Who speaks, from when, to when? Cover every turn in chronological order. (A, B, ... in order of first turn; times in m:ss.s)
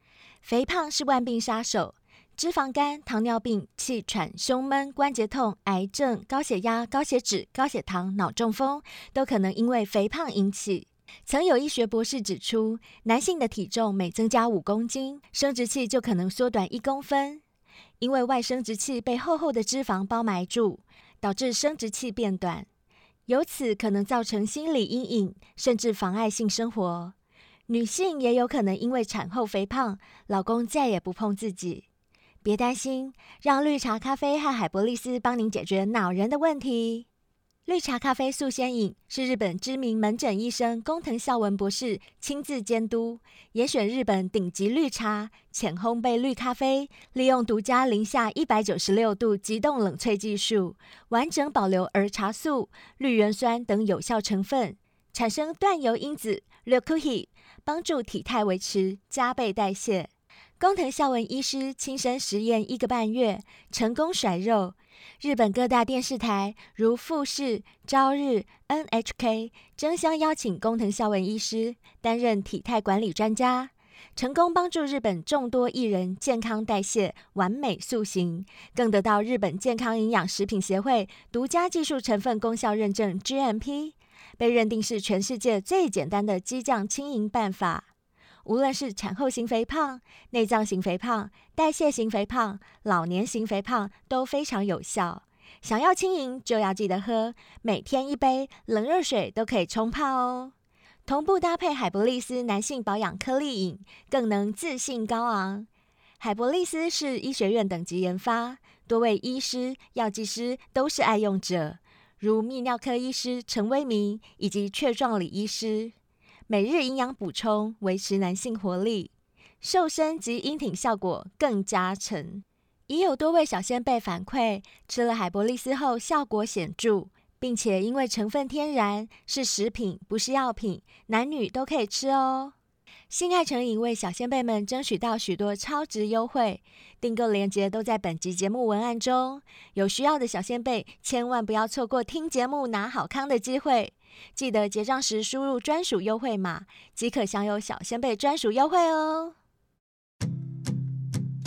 0:00.4-0:17.4 A
0:18.0-0:22.7 A
0:23.3-0:27.1 A
0:27.7-0:31.8 A
0:32.4-0:37.1 A
0:37.6-1:00.1 A
1:00.6-1:27.9 A
1:28.4-1:40.5 A
1:41.0-1:45.7 A
1:46.2-1:55.9 A
1:56.5-2:12.5 A
2:13.1-2:29.3 A